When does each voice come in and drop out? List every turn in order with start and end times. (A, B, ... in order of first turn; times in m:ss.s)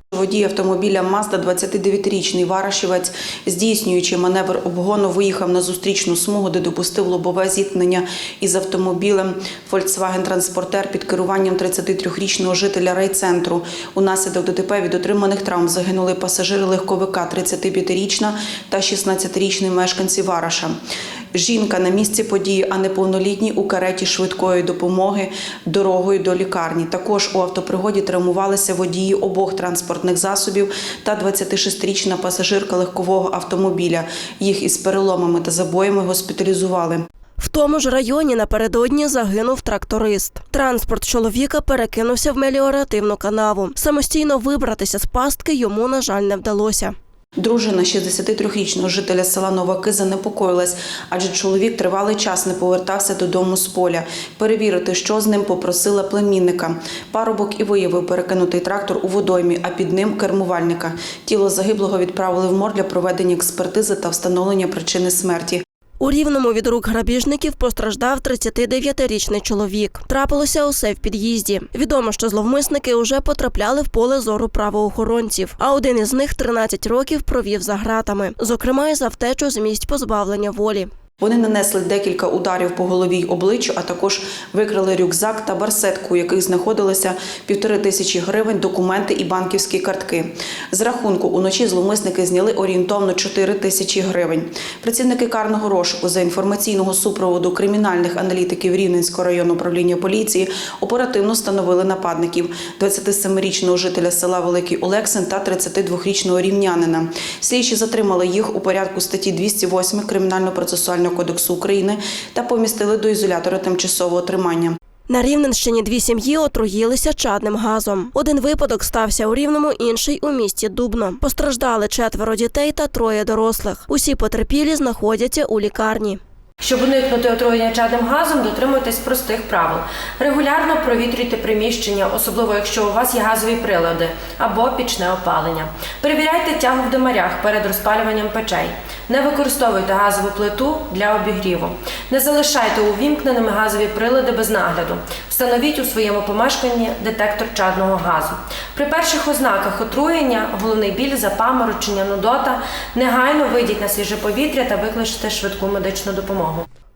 0:00.1-0:20.8 A
0:21.3-0:37.1 A
0:37.4-0:47.0 B
0:47.4-1:05.6 A
1:06.0-1:20.9 B
1:21.2-1:54.8 A
1:55.1-2:06.2 B
2:06.6-2:36.7 C